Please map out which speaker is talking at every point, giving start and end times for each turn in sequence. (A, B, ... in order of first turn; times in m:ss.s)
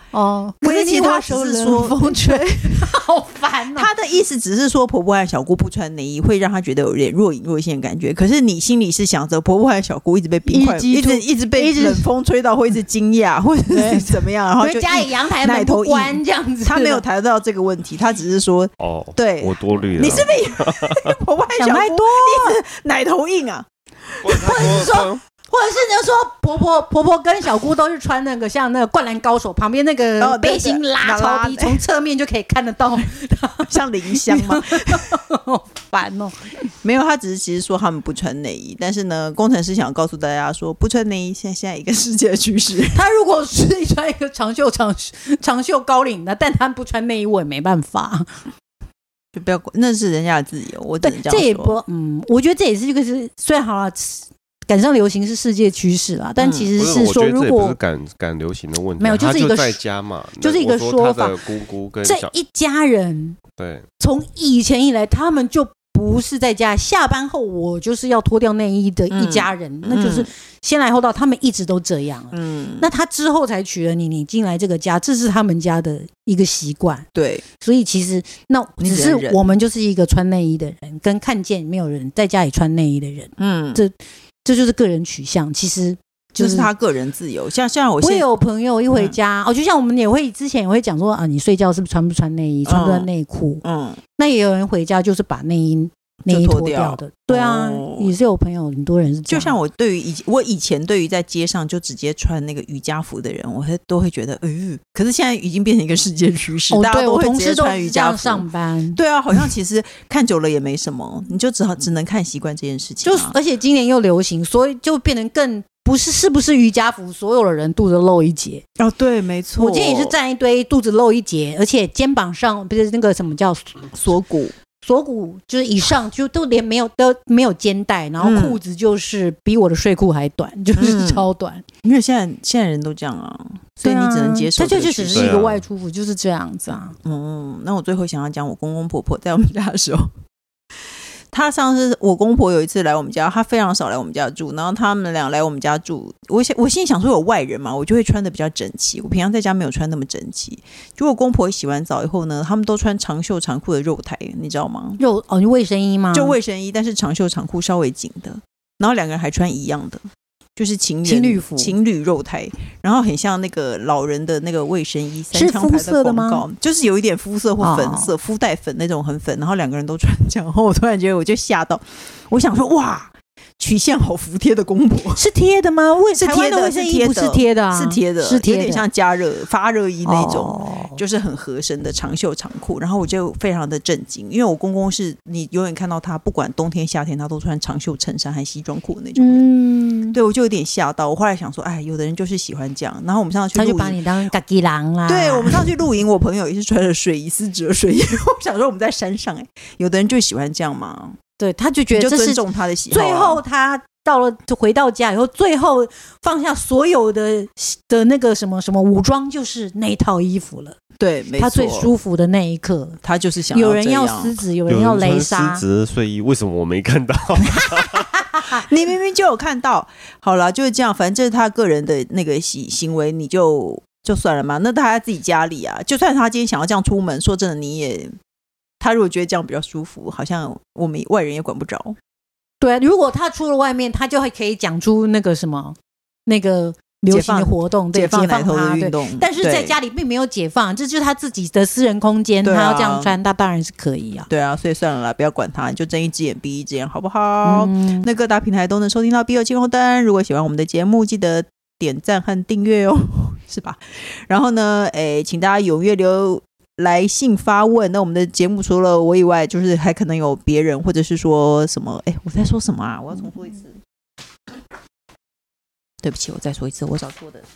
0:00.1-0:03.9 A
0:00.6-0:02.9 B
0:03.7-0:24.9 B
0:10.5-0:12.1 A
0:13.7-0:17.0 A
0:18.8-0:21.1 C
0:21.5-0:22.6 A
0:24.2-0:25.2 C
0:24.3-0:36.5 A
0:30.2-0:31.8 B
0:33.7-0:35.2 B
0:36.8-0:43.0 B
0:42.9-0:48.4 A
0:49.3-0:51.8 B
0:51.0-0:57.8 A
0:56.4-0:56.7 B
0:56.8-1:02.3 C
0:59.0-0:59.8 A
1:00.4-1:01.5 A
1:02.0-1:03.4 A
1:03.6-1:03.9 C
1:04.0-1:26.7 A
1:09.1-1:10.3 B
1:12.3-1:12.9 B
1:17.2-1:17.4 B
1:18.8-1:19.5 B
1:23.4-1:23.8 B
1:26.4-1:28.3 B
1:28.0-1:33.6 A
1:28.9-1:29.2 B
1:32.6-1:33.1 B
1:33.6-1:34.0 B
1:34.2-1:39.6 A
1:36.3-1:38.1 B
1:39.3-1:53.4 B
1:46.7-1:49.4 A
1:53.0-1:58.6 A
1:58.8-2:00.2 B
1:59.6-2:03.9 A
2:03.9-2:04.5 B
2:04.8-2:11.6 A
2:08.2-2:08.6 B
2:10.8-2:11.3 B
2:11.8-2:15.4 B
2:13.8-2:17.0 A
2:15.1-2:15.6 C
2:17.0-2:20.1 B
2:21.3-2:35.0 B
2:35.0-2:36.4 A
2:36.1-2:40.0 B
2:40.6-2:55.2 B
2:41.0-2:41.8 A
2:45.3-2:46.4 A
2:47.6-2:48.1 A
2:55.2-2:58.8 A
2:56.2-3:09.5 B
3:00.0-3:01.0 A
3:09.2-3:10.2 A
3:10.1-3:14.0 B
3:13.5-3:15.7 A
3:15.1-3:21.2 B
3:21.4-3:30.8 A
3:21.9-3:23.4 B
3:31.0-3:31.9 B
3:31.4-3:33.0 A
3:33.0-3:34.3 B
3:33.5-3:35.6 A
3:34.7-3:38.1 C
3:38.3-3:38.6 A
3:38.5-3:48.2 B
3:48.8-3:52.0 B
3:52.6-4:04.3 A
3:57.1-3:59.8 B
4:02.4-4:03.2 B
4:04.3-4:23.8 B
4:07.4-4:08.1 A
4:26.0-4:27.5 B